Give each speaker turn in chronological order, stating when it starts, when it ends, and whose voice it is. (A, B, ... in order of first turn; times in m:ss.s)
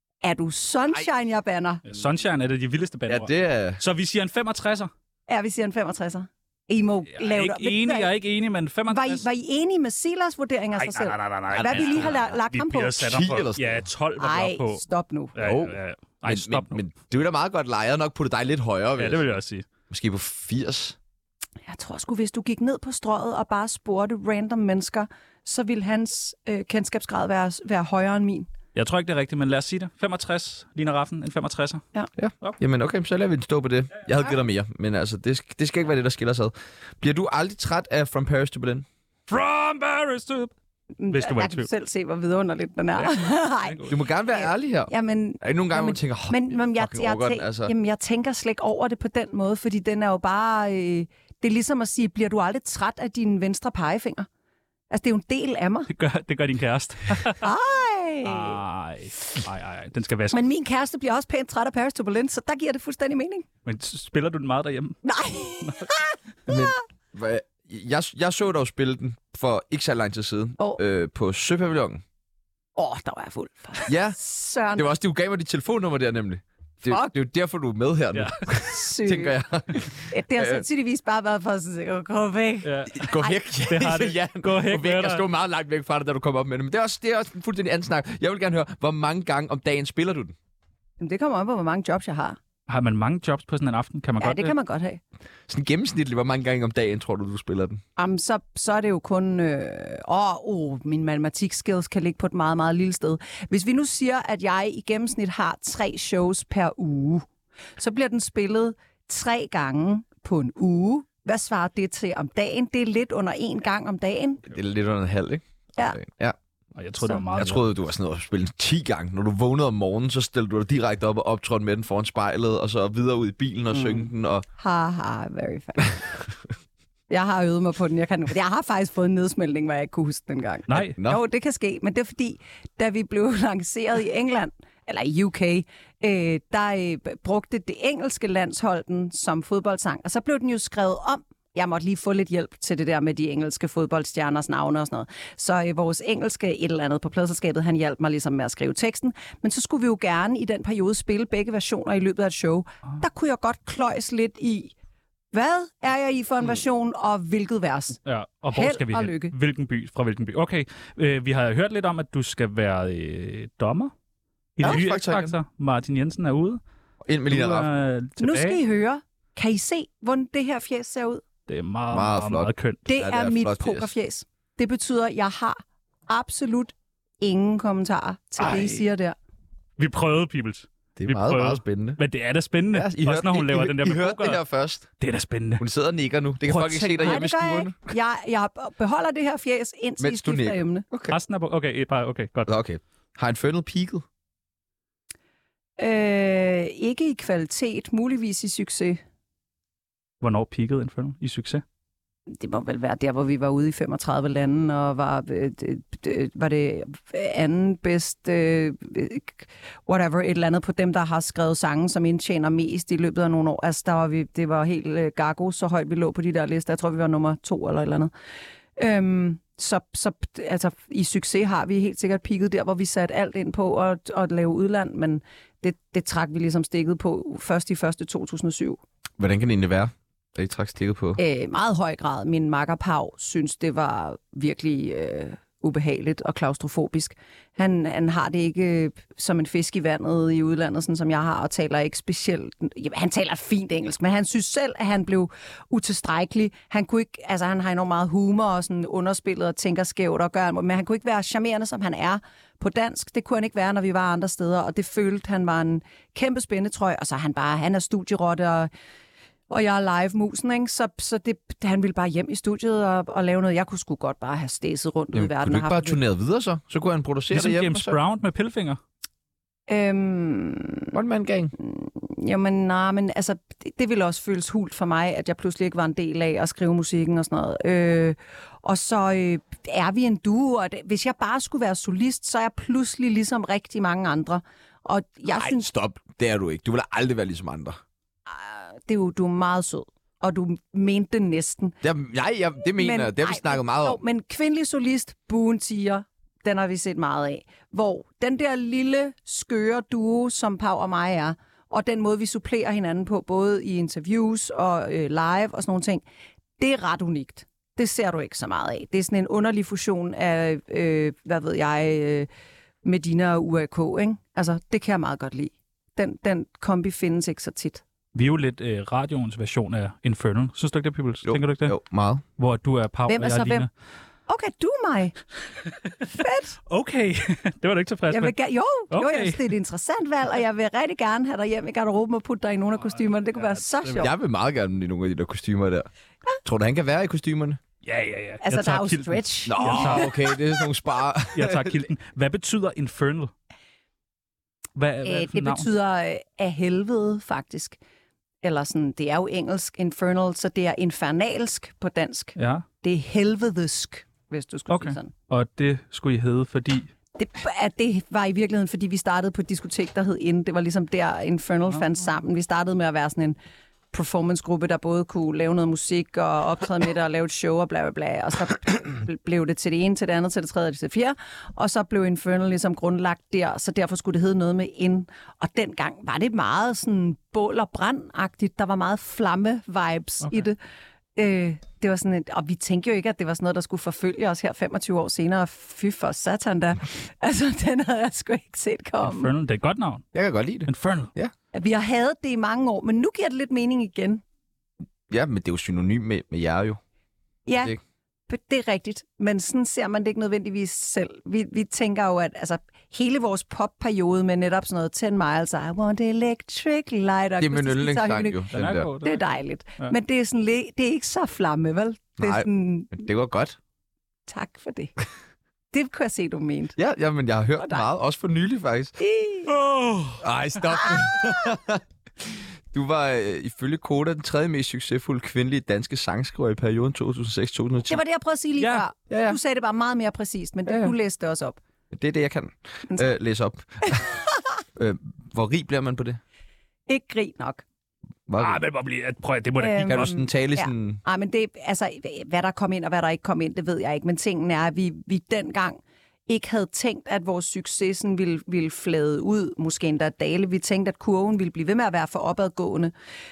0:00.2-0:01.8 A
0:01.9-0:04.9 B
0:03.1-0:03.8 C
0:05.3-0:08.1 A
0:07.1-0:09.2 B
0:08.9-0:13.1 A
0:10.8-0:14.8 B
0:11.6-0:12.2 C
0:13.0-0:13.9 C
0:14.2-0:15.4 A
0:15.4-0:16.8 B
0:15.4-0:19.3 C
0:19.0-0:19.6 B
0:19.9-0:21.0 C
0:21.7-0:28.5 A
0:28.8-0:31.8 B
0:32.2-0:38.9 C
0:39.3-0:40.5 B
0:41.0-0:54.3 A
0:41.1-0:41.7 B
0:43.0-0:44.0 B
0:43.9-0:47.7 C
0:54.9-0:55.9 A
0:55.9-0:57.5 B
0:57.4-0:58.6 A
0:58.2-1:00.4 B
1:00.3-1:03.5 A
1:03.6-1:05.0 B
1:05.0-1:06.7 A
1:06.5-1:12.0 C
1:12.8-1:14.9 A
1:13.9-1:14.2 C
1:14.7-1:20.6 C
1:16.9-1:17.1 A
1:18.1-1:18.4 B
1:18.6-1:19.4 A
1:20.1-1:23.4 A
1:22.6-1:23.1 B
1:22.9-1:30.4 C
1:23.7-1:25.2 B
1:31.0-1:32.4 A
1:32.7-1:34.5 B
1:34.2-1:35.0 A
1:35.5-1:37.8 C
1:38.0-1:47.2 A
1:47.8-1:54.5 A
1:54.4-1:56.4 C
1:56.8-1:57.7 B
1:57.4-2:04.5 C
2:03.7-2:04.1 A
2:04.6-2:06.0 A
2:07.1-2:34.7 A
2:10.7-2:11.0 B
2:10.7-2:11.2 C
2:35.3-2:38.0 A
2:38.0-2:43.9 B
2:38.5-2:39.3 A
2:44.6-2:46.6 B
2:44.6-2:45.4 C
2:47.0-2:47.7 C
2:47.3-2:48.6 B
2:48.2-2:51.2 A
2:51.5-2:52.8 B
2:51.9-2:53.9 C
2:52.9-2:59.2 A
2:58.4-2:58.7 B
2:59.8-3:04.4 B
3:01.0-3:02.0 C
3:02.7-3:04.9 C
3:05.0-3:05.6 B
3:05.6-3:07.9 C
3:06.4-3:07.2 B
3:07.0-3:10.8 A
3:10.0-3:11.2 C
3:11.1-3:12.5 B
3:12.5-3:14.0 C
3:15.8-3:19.0 A
3:20.2-3:21.6 B
3:22.3-3:38.1 A
3:38.8-3:48.8 A
3:49.2-3:51.2 C
3:51.2-4:18.7 A
4:19.5-4:26.0 A
4:25.1-4:28.0 C
4:27.3-4:28.8 B
4:29.7-4:30.9 A
4:30.9-4:31.5 C
4:31.6-4:45.7 A
4:45.3-4:47.8 C
4:48.3-4:51.8 A
4:51.8-4:54.0 C
4:52.8-5:06.0 A
5:06.6-5:12.3 A
5:12.8-5:17.8 A
5:18.1-5:21.8 B
5:21.2-5:22.2 C
5:22.4-5:23.7 B
5:23.1-5:23.7 A
5:24.3-5:25.2 A
5:26.1-5:26.6 A
5:26.7-5:28.4 B
5:28.1-5:34.1 A
5:28.9-5:29.5 B
5:33.4-5:34.1 B
5:34.0-5:35.9 C
5:36.4-5:37.6 C
5:37.8-5:40.2 B
5:38.4-5:40.1 A
5:39.5-5:41.8 C
5:41.4-5:43.3 B
5:44.8-5:45.7 B
5:45.0-5:47.8 A
5:48.4-5:55.1 A
5:52.4-5:52.6 B
5:54.7-5:56.9 B
5:57.2-6:03.4 A
6:03.9-6:20.6 A
6:21.2-6:29.3 A
6:29.0-6:30.1 B
6:30.1-6:31.3 C
6:30.7-6:31.1 B
6:31.5-6:34.2 A
6:35.1-6:36.8 C
6:37.5-6:37.8 A
6:38.3-6:53.0 A
6:47.4-6:48.9 C
6:48.5-6:49.2 B
6:52.2-6:53.6 C
6:54.3-6:55.0 A
6:55.7-6:56.8 A
6:56.8-6:59.0 C
6:57.6-6:57.8 A
6:59.0-6:59.5 A
6:59.5-7:00.2 B
7:00.2-7:08.0 C
7:07.9-7:11.6 A
7:09.1-7:09.4 C
7:10.7-7:10.9 C
7:11.9-7:14.2 C
7:14.8-7:16.2 C
7:16.9-7:17.6 A
7:18.3-7:18.6 C
7:18.4-7:20.1 B
7:19.6-7:32.9 A
7:19.8-7:21.0 C